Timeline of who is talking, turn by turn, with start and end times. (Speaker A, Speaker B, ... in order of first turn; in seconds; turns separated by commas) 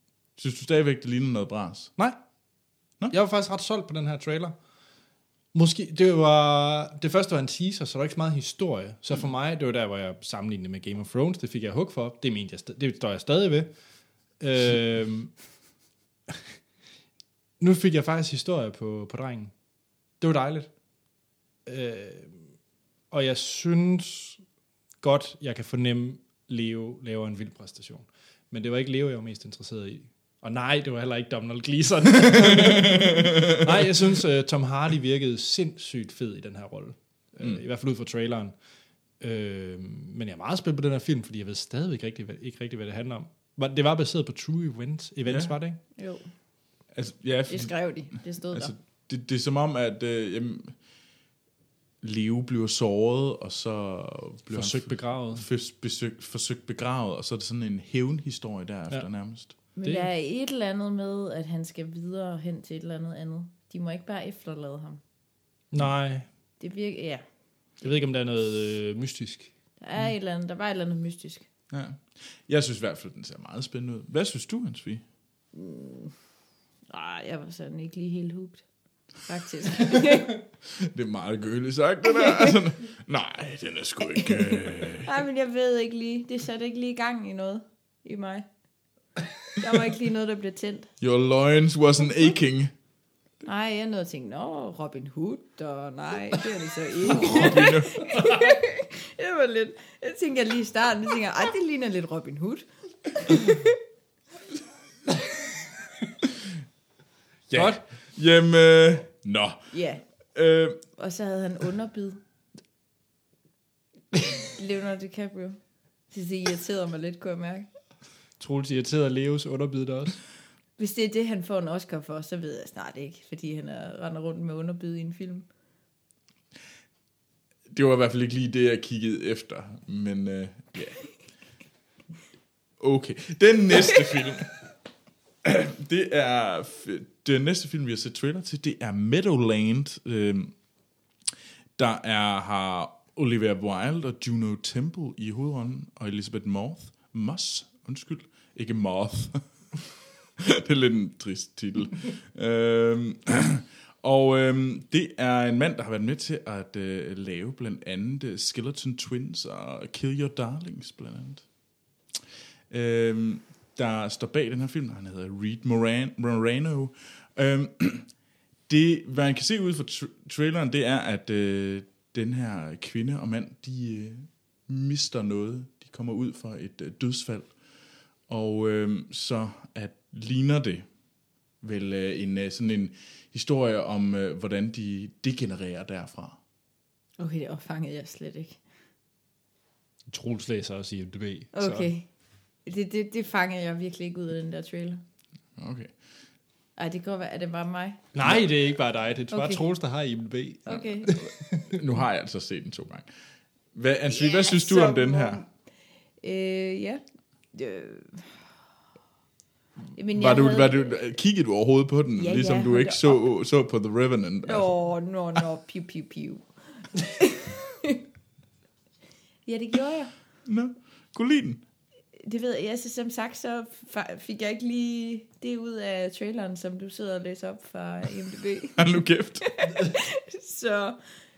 Speaker A: 0.4-1.9, Speaker B: 3.1-4.5, Speaker B: 5.5-13.7, Speaker B: 14.4-15.3, Speaker B: 17.6-19.5, Speaker B: 20.2-20.7, Speaker B: 21.6-22.4, Speaker B: 23.1-24.4, Speaker B: 25.0-38.5, Speaker A: 32.2-33.9, Speaker B: 39.2-45.8, Speaker A: 45.2-45.5, Speaker C: 46.0-46.2, Speaker A: 46.9-47.8, Speaker C: 47.5-48.7, Speaker A: 48.5-50.7, Speaker A: 52.0-59.5, Speaker B: 54.5-55.4, Speaker C: 59.8-65.0, Speaker B: 59.8-60.1, Speaker B: 65.7-66.3, Speaker C: 66.6-67.2, Speaker B: 67.8-69.5, Speaker C: 69.8-71.5, Speaker A: 71.7-75.0, Speaker C: 75.5-76.1, Speaker C: 76.9-78.6, Speaker C: 79.2-80.4, Speaker A: 80.8-85.1, Speaker C: 82.1-82.5, Speaker C: 84.2-88.5, Speaker C: 89.5-90.9, Speaker A: 91.0-92.7, Speaker C: 93.4-103.8, Speaker A: 97.1-98.0, Speaker A: 107.5-109.6, Speaker B: 107.5-107.8, Speaker C: 109.7-110.0, Speaker A: 110.3-110.8, Speaker C: 111.0-112.2, Speaker C: 114.4-115.6, Speaker C: 116.1-117.7, Speaker B: 118.4-120.2, Speaker C: 120.8-125.5, Speaker A: 127.7-131.0, Speaker A: 132.8-134.5, Speaker A: 135.4-140.5, Speaker A: 141.8-149.4, Speaker A: 150.4-161.4, Speaker A: 162.7-168.1, Speaker A: 168.7-177.5, Speaker A: 178.3-180.8, Speaker A: 181.6-186.4, Speaker C: 187.2-188.6, Speaker B: 190.1-191.9, Speaker C: 191.5-192.1, Speaker C: 192.7-195.0, Speaker A: 195.6-195.9, Speaker C: 196.8-198.1, Speaker B: 198.1-201.8, Speaker C: 199.3-199.6, Speaker C: 200.7-201.2, Speaker A: 200.7-203.1, Speaker A: 203.7-205.4, Speaker C: 204.1-205.5, Speaker C: 206.2-207.0, Speaker C: 207.5-208.4, Speaker C: 209.9-210.9, Speaker A: 210.1-214.7, Speaker C: 212.2-213.2, Speaker C: 214.4-218.0, Speaker C: 219.4-220.2, Speaker A: 220.4-221.6, Speaker C: 222.2-231.0, Speaker A: 228.8-229.4